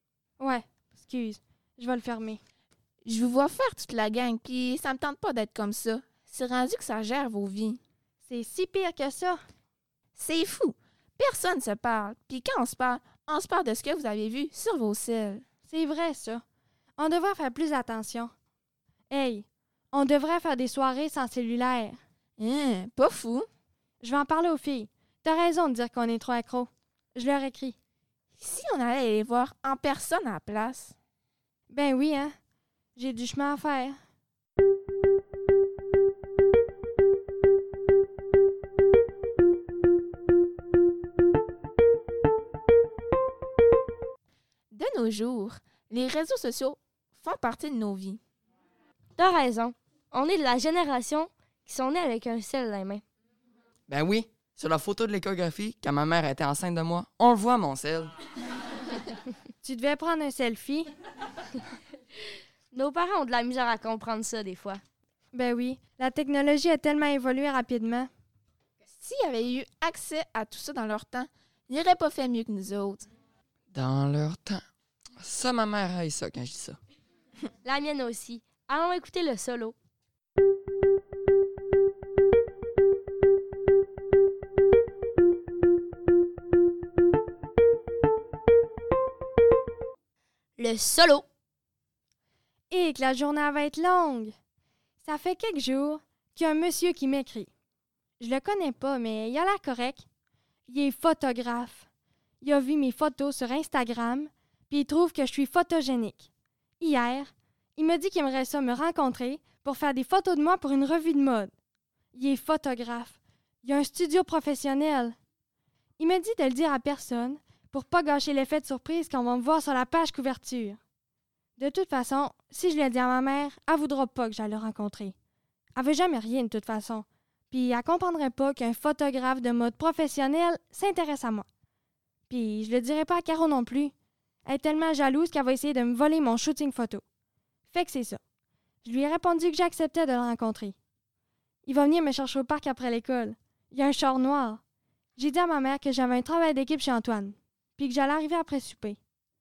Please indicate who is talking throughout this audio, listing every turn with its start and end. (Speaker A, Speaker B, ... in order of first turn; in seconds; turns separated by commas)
Speaker A: 0.4-2.4, Speaker B: 3.0-7.8, Speaker A: 8.2-9.4, Speaker B: 10.2-15.4, Speaker A: 15.7-16.4, Speaker A: 17.0-18.3, Speaker A: 19.1-22.0, Speaker B: 22.4-23.5, Speaker A: 24.0-27.8, Speaker B: 28.4-30.9, Speaker A: 31.7-32.3, Speaker A: 33.0-34.0, Speaker B: 44.7-48.2, Speaker C: 49.2-53.0, Speaker D: 53.9-58.1, Speaker A: 59.6-60.9, Speaker C: 62.7-64.8, Speaker A: 65.3-68.1, Speaker B: 69.0-73.1, Speaker D: 73.7-74.6, Speaker D: 75.2-76.8, Speaker C: 77.6-79.8, Speaker C: 90.6-91.3, Speaker A: 92.7-94.3, Speaker A: 95.0-97.5, Speaker A: 98.2-100.0, Speaker A: 100.7-101.9, Speaker A: 102.4-106.3, Speaker A: 106.8-111.5, Speaker A: 112.1-115.2, Speaker A: 116.0-120.8, Speaker A: 121.6-125.1, Speaker A: 125.8-131.5, Speaker A: 132.3-133.9, Speaker A: 134.5-137.0, Speaker A: 137.7-138.2, Speaker A: 138.8-140.8, Speaker A: 141.7-144.6, Speaker A: 145.2-149.0